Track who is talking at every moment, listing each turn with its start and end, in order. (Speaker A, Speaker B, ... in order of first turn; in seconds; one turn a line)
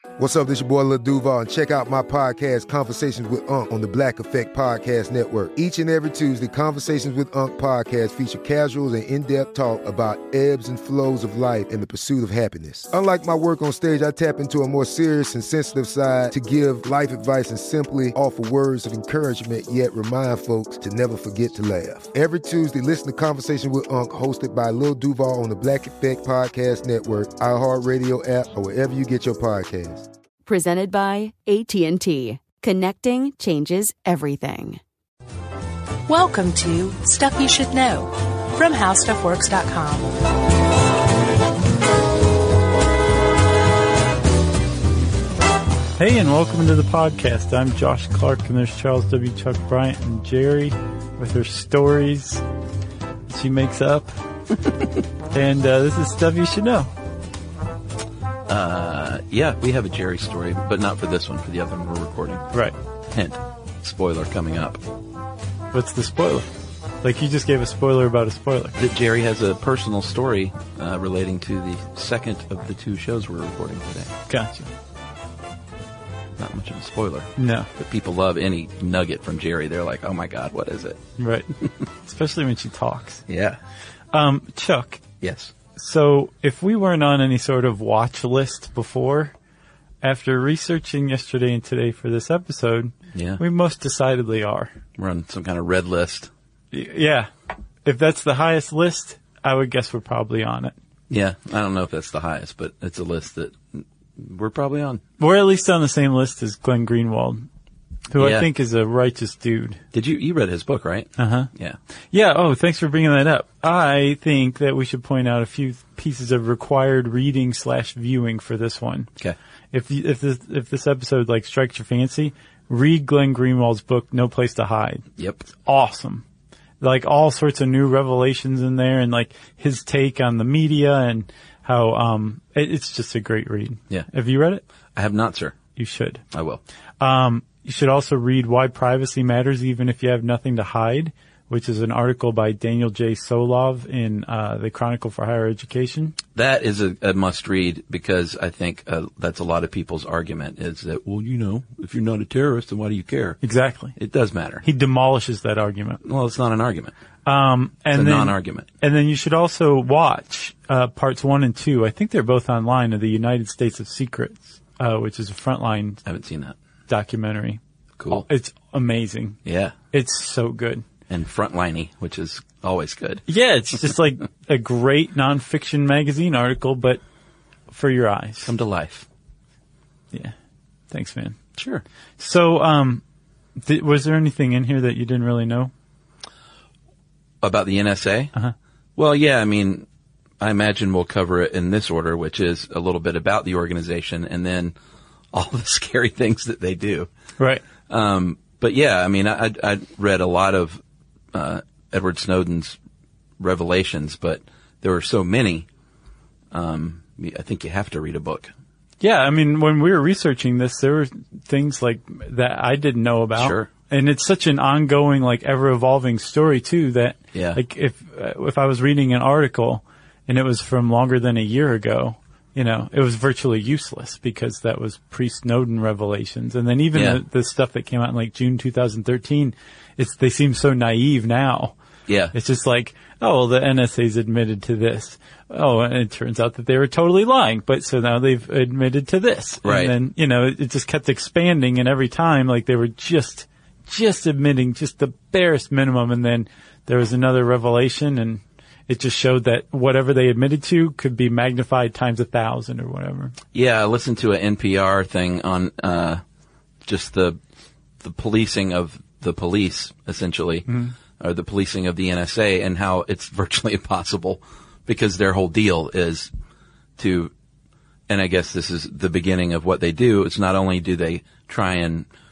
Speaker A: 0.2-30.1
Speaker B: 30.4-34.8
Speaker C: 36.1-40.1
Speaker D: 46.0-52.4
Speaker D: 53.3-54.1
Speaker D: 55.3-56.9
Speaker E: 58.5-62.5
Speaker E: 63.1-64.8
Speaker D: 65.7-66.5
Speaker D: 67.0-68.8
Speaker E: 68.8-74.1
Speaker D: 74.3-74.7
Speaker E: 76.4-81.0
Speaker D: 77.4-77.7
Speaker D: 81.2-81.5
Speaker D: 82.0-83.2
Speaker E: 83.3-83.6
Speaker D: 84.1-85.0
Speaker E: 85.2-85.5
Speaker D: 85.8-89.3
Speaker D: 90.0-94.7
Speaker E: 93.2-93.4
Speaker E: 95.0-96.3
Speaker D: 96.7-97.3
Speaker D: 97.8-100.7
Speaker E: 101.1-105.0
Speaker D: 105.2-107.4
Speaker D: 108.1-109.8
Speaker E: 108.2-108.5
Speaker E: 109.9-111.8
Speaker D: 111.2-111.5
Speaker D: 112.1-119.1
Speaker D: 119.7-126.2
Speaker E: 125.2-125.5
Speaker D: 126.8-134.6
Speaker E: 135.0-135.6
Speaker D: 135.8-136.2
Speaker E: 136.3-136.6
Speaker D: 137.0-146.2
Speaker E: 146.3-153.4
Speaker D: 153.4-154.0
Speaker E: 154.0-154.7
Speaker D: 154.6-156.0
Speaker E: 156.0-156.9
Speaker D: 157.2-166.0
Speaker E: 157.9-158.7
Speaker E: 166.1-166.6
Speaker D: 166.9-169.4
Speaker E: 168.0-168.2
Speaker E: 169.4-169.8
Speaker D: 169.9-170.9
Speaker E: 171.1-173.2
Speaker D: 173.3-177.0
Speaker D: 177.7-178.5
Speaker E: 178.4-179.1
Speaker D: 180.9-181.4
Speaker E: 181.6-181.8
Speaker D: 182.2-183.0
Speaker D: 183.6-185.7
Speaker E: 187.4-188.3
Speaker E: 189.0-189.9
Speaker E: 190.4-194.7
Speaker E: 195.3-197.1
Speaker D: 197.4-197.6
Speaker E: 197.9-200.8
Speaker E: 201.3-202.8
Speaker E: 203.4-205.7
Speaker E: 206.5-208.5
Speaker D: 209.0-231.8
Speaker E: 213.4-213.7
Speaker E: 217.3-217.6
Speaker E: 226.9-227.2
Speaker E: 232.1-232.3
Speaker D: 232.3-253.3
Speaker E: 239.6-239.9
Speaker E: 253.5-256.2
Speaker E: 256.8-257.4
Speaker E: 258.0-260.7
Speaker D: 260.7-260.9
Speaker E: 261.2-266.3
Speaker E: 267.0-267.3
Speaker E: 268.1-272.1